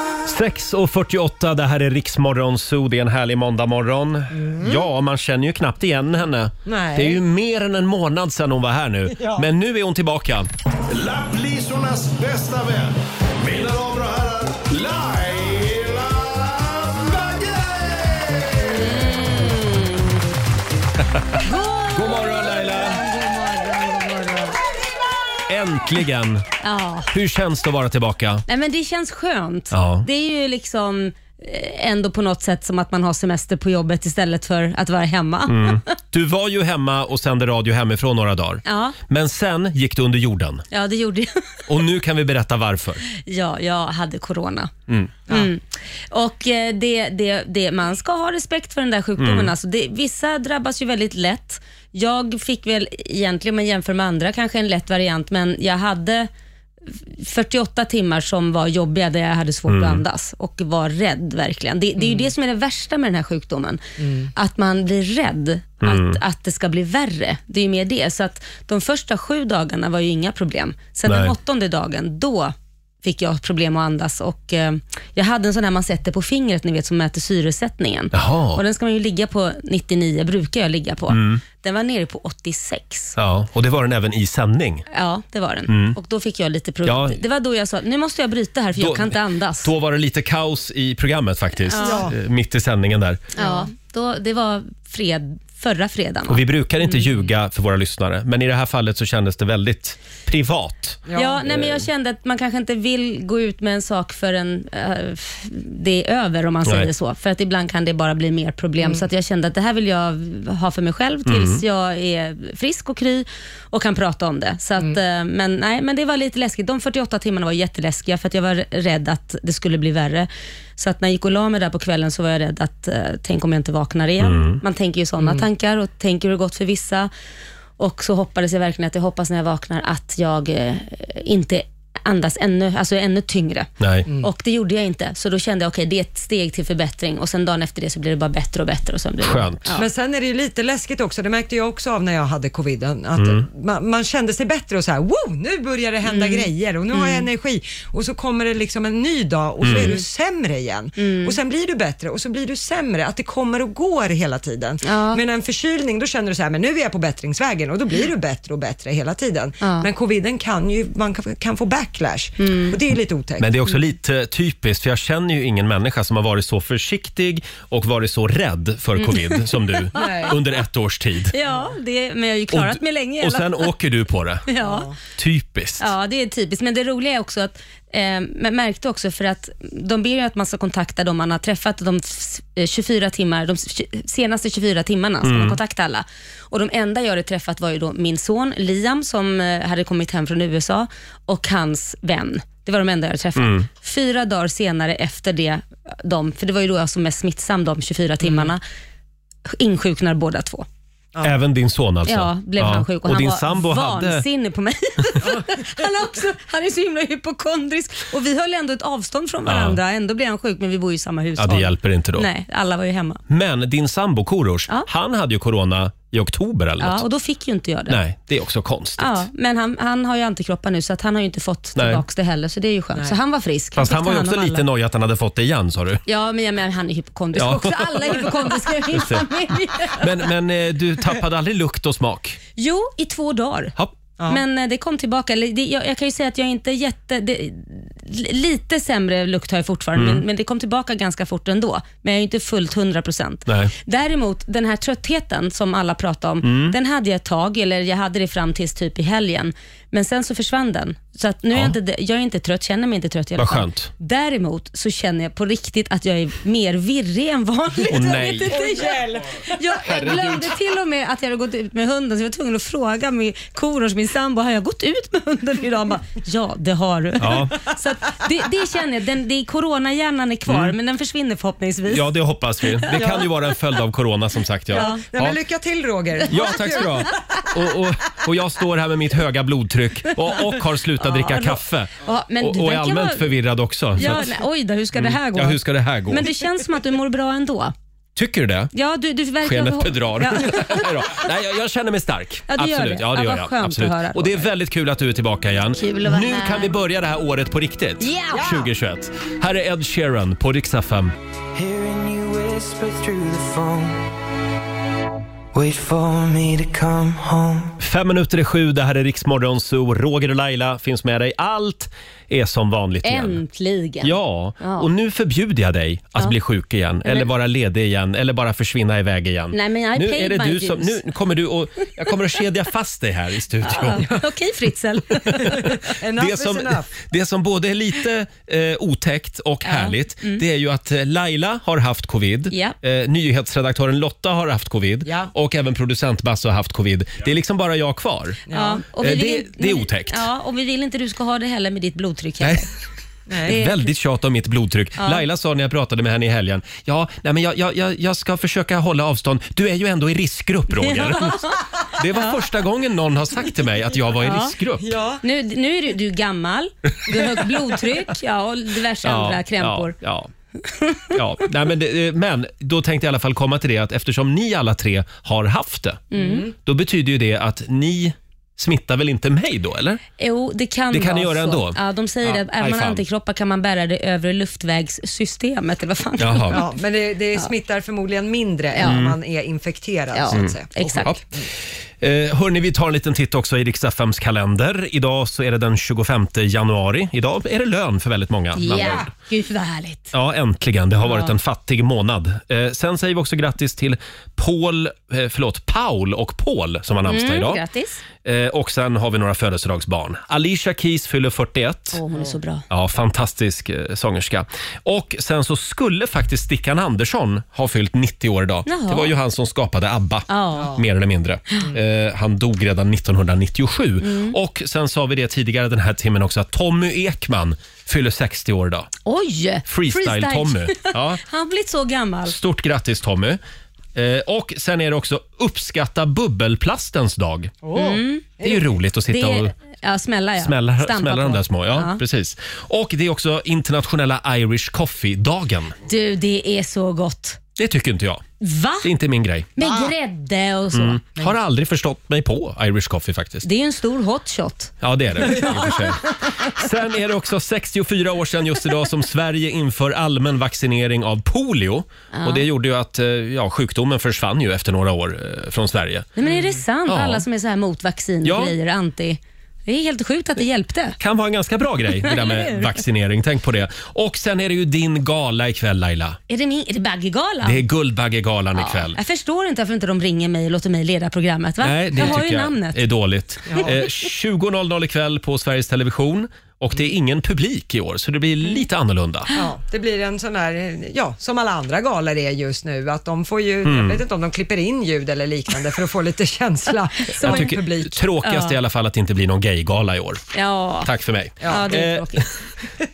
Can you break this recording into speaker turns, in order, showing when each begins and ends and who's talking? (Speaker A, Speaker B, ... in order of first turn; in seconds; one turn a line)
Speaker A: 0.2-10.5
Speaker B: 4.3-4.8
Speaker B: 6.7-7.2
Speaker B: 9.1-9.4
Speaker C: 10.9-19.1
Speaker D: 18.6-20.2
Speaker D: 21.4-24.6
Speaker A: 21.9-23.0
Speaker A: 25.5-26.4
Speaker D: 26.6-27.1
Speaker A: 27.1-28.4
Speaker D: 28.5-35.8
Speaker A: 29.7-30.1
Speaker A: 35.5-40.6
Speaker D: 38.6-39.0
Speaker D: 40.7-41.4
Speaker A: 41.7-43.0
Speaker D: 43.1-44.7
Speaker A: 44.9-45.1
Speaker D: 45.3-56.3
Speaker A: 49.2-49.5
Speaker D: 56.9-63.8
Speaker A: 59.7-60.0
Speaker B: 62.0-62.3
Speaker B: 64.0-64.3
Speaker D: 64.3-83.2
Speaker A: 65.8-66.2
Speaker A: 71.0-71.3
Speaker A: 78.1-78.6
Speaker A: 81.1-81.4
Speaker A: 83.2-84.8
Speaker D: 84.9-89.7
Speaker A: 85.7-86.0
Speaker A: 86.8-87.2
Speaker A: 88.8-93.2
Speaker D: 91.7-92.1
Speaker B: 91.8-92.1
Speaker D: 93.3-96.4
Speaker B: 93.4-93.7
Speaker A: 96.3-101.8
Speaker B: 101.1-101.4
Speaker D: 101.1-127.1
Speaker A: 111.2-111.6
Speaker A: 124.2-124.6
Speaker B: 125.2-125.4
Speaker D: 127.8-139.9
Speaker A: 133.8-134.1
Speaker A: 139.2-139.8
Speaker B: 139.8-163.6
Speaker A: 143.2-143.5
Speaker D: 146.1-147.3
Speaker A: 149.6-149.9
Speaker D: 149.7-150.0
Speaker D: 151.0-151.3
Speaker D: 154.8-155.2
Speaker D: 159.6-159.9
Speaker D: 162.4-162.8
Speaker A: 163.4-171.3
Speaker D: 169.0-170.3
Speaker B: 169.9-170.4
Speaker D: 171.3-173.7
Speaker A: 172.5-174.5
Speaker D: 174.5-174.9
Speaker B: 174.6-174.9
Speaker A: 175.2-175.9
Speaker D: 175.8-198.6
Speaker A: 185.2-185.6
Speaker A: 193.3-193.7
Speaker B: 198.2-198.5
Speaker D: 199.5-200.7
Speaker A: 201.2-204.2
Speaker D: 202.1-213.2
Speaker A: 209.4-209.8
Speaker A: 211.4-212.3
Speaker A: 213.3-217.0
Speaker D: 216.8-218.0
Speaker A: 217.9-219.2
Speaker D: 219.0-224.6
Speaker A: 221.8-222.0
Speaker A: 223.8-226.0
Speaker D: 226.1-230.1
Speaker A: 227.3-228.3
Speaker A: 228.9-229.2
Speaker A: 230.0-232.4
Speaker D: 232.6-233.7
Speaker D: 234.3-272.1
Speaker A: 239.9-240.2
Speaker A: 243.5-243.7
Speaker A: 246.4-246.8
Speaker A: 253.4-253.9
Speaker A: 257.9-258.7
Speaker B: 258.5-260.2
Speaker A: 259.8-260.6
Speaker A: 267.2-267.5
Speaker A: 270.4-270.7
Speaker A: 271.9-275.4
Speaker B: 272.9-273.3
Speaker D: 274.7-275.0
Speaker B: 274.7-276.9
Speaker D: 276.3-277.0
Speaker A: 276.3-284.3
Speaker D: 281.0-283.3
Speaker D: 283.9-287.7
Speaker A: 284.9-286.3
Speaker A: 288.1-288.7
Speaker D: 288.7-290.9
Speaker A: 289.4-301.1
Speaker D: 292.5-294.5
Speaker D: 295.8-296.7
Speaker D: 298.0-298.4
Speaker B: 298.3-298.7
Speaker E: 301.5-304.0
Speaker E: 305.5-307.8
Speaker A: 307.8-313.4
Speaker D: 313.0-314.9
Speaker A: 314.0-324.1
Speaker D: 317.0-317.3
Speaker D: 319.5-321.1
Speaker D: 323.6-325.7
Speaker A: 325.3-338.4
Speaker B: 325.5-326.9
Speaker D: 329.6-330.4
Speaker D: 332.5-332.8
Speaker B: 338.5-338.8
Speaker D: 338.5-342.7
Speaker A: 339.0-340.3
Speaker A: 342.4-342.6
Speaker B: 343.3-343.6
Speaker A: 343.4-354.9
Speaker D: 343.4-343.9
Speaker D: 345.0-345.2
Speaker D: 350.7-351.6
Speaker D: 352.1-352.4
Speaker D: 354.2-354.5
Speaker B: 354.8-355.2
Speaker D: 355.2-359.9
Speaker A: 359.0-360.3
Speaker D: 360.7-361.0
Speaker A: 361.1-370.0
Speaker D: 366.1-366.5
Speaker B: 366.1-366.5
Speaker D: 370.2-376.6
Speaker A: 370.9-373.0
Speaker A: 376.2-376.6
Speaker B: 376.5-381.5
Speaker D: 378.7-379.0
Speaker A: 378.8-379.2
Speaker D: 380.1-381.1
Speaker A: 380.3-381.2
Speaker A: 382.0-389.1
Speaker D: 388.5-390.1
Speaker B: 388.6-389.1
Speaker A: 390.1-397.6
Speaker D: 391.0-391.3
Speaker D: 397.0-398.0
Speaker A: 398.2-402.0
Speaker D: 401.9-402.6
Speaker A: 402.7-418.9
Speaker D: 408.6-409.1
Speaker D: 410.3-410.8
Speaker B: 410.6-410.8
Speaker D: 414.0-414.4
Speaker D: 419.1-422.4
Speaker A: 419.6-421.2
Speaker A: 422.2-423.4
Speaker A: 423.9-427.5
Speaker B: 427.6-428.7
Speaker D: 427.7-428.3
Speaker A: 428.4-429.5
Speaker D: 429.1-432.0
Speaker A: 430.4-435.7
Speaker D: 435.9-437.4
Speaker A: 437.6-438.2
Speaker D: 438.4-438.9
Speaker A: 438.8-439.6
Speaker D: 439.6-441.2
Speaker A: 440.7-443.5
Speaker D: 443.4-445.8
Speaker A: 444.8-456.1
Speaker D: 452.1-452.5
Speaker D: 456.2-461.0
Speaker B: 456.2-456.6
Speaker A: 456.9-457.2
Speaker A: 458.2-458.5
Speaker A: 461.0-466.2
Speaker D: 462.0-462.7
Speaker D: 466.3-467.6
Speaker A: 467.4-469.0
Speaker D: 468.6-472.8
Speaker A: 471.6-479.3
Speaker B: 473.5-473.7
Speaker B: 479.3-487.9
Speaker A: 483.6-484.0
Speaker D: 487.1-487.6
Speaker A: 487.2-490.2
Speaker D: 488.2-488.6
Speaker D: 490.3-490.9
Speaker A: 490.8-492.3
Speaker B: 491.4-491.7
Speaker D: 491.4-492.2